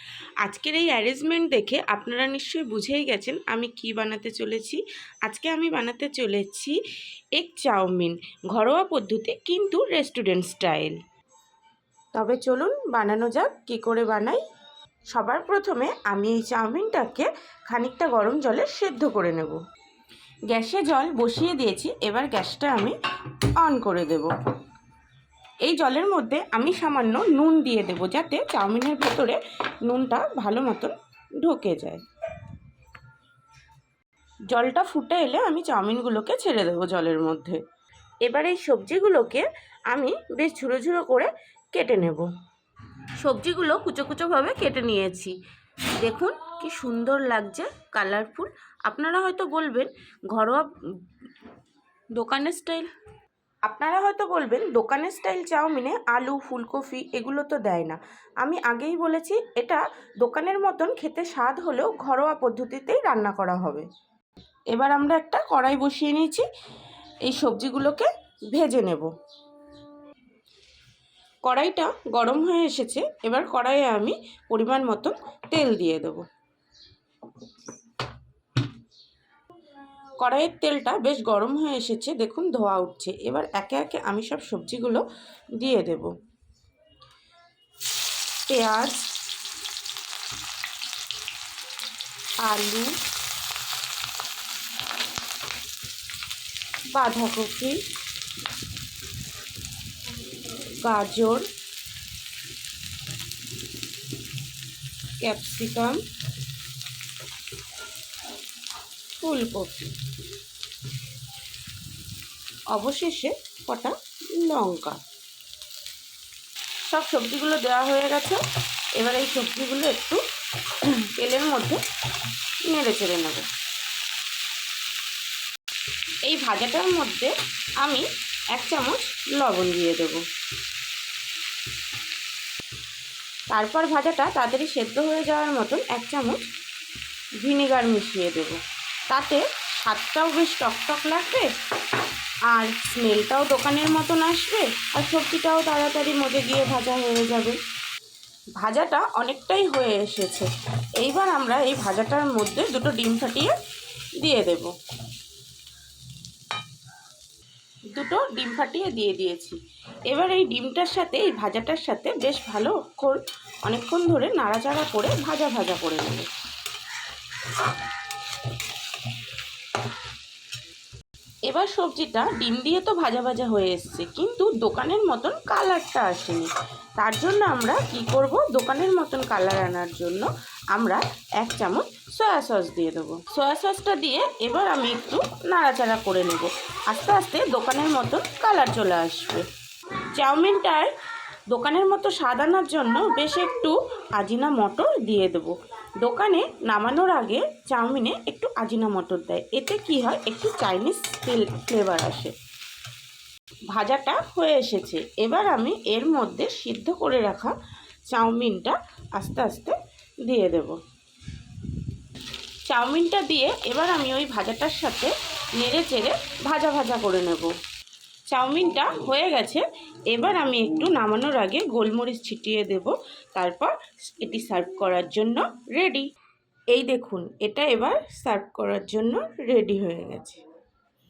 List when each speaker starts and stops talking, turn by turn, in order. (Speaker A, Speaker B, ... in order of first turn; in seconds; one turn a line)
Speaker A: 0.4-6.8
Speaker A: 7.4-11.0
Speaker A: 12.1-14.4
Speaker A: 15.1-19.6
Speaker A: 20.5-22.9
Speaker A: 23.6-24.3
Speaker A: 25.6-32.0
Speaker A: 34.5-37.6
Speaker A: 38.2-42.3
Speaker A: 43.2-45.3
Speaker A: 46.0-50.7
Speaker A: 52.1-52.9
Speaker A: 53.6-63.9
Speaker A: 64.7-66.5
Speaker A: 67.2-69.1
Speaker A: 71.4-76.2
Speaker A: 80.2-85.0
Speaker A: 85.6-86.1
Speaker A: 88.5-89.1
Speaker A: 92.4-92.9
Speaker A: 96.9-97.8
Speaker A: 100.8-101.5
Speaker A: 105.2-106.0
Speaker A: 109.2-109.9
Speaker A: 112.7-115.0
Speaker A: 116.9-118.4
Speaker A: 119.0-121.8
Speaker A: 122.7-123.4
Speaker A: 126.2-130.2
Speaker A: 133.5-136.4
Speaker A: 137.4-141.5
Speaker A: 142.5-147.6
Speaker A: 148.6-153.5
Speaker A: 154.2-154.7
Speaker A: 157.9-159.6
Speaker A: 160.1-166.3
Speaker A: 171.5-189.4
Speaker A: 190.1-190.9
Speaker A: 191.5-202.3
Speaker A: 203.7-207.5
Speaker A: 208.1-210.8
Speaker A: 212.7-217.5
Speaker A: 218.3-226.1
Speaker A: 226.7-230.4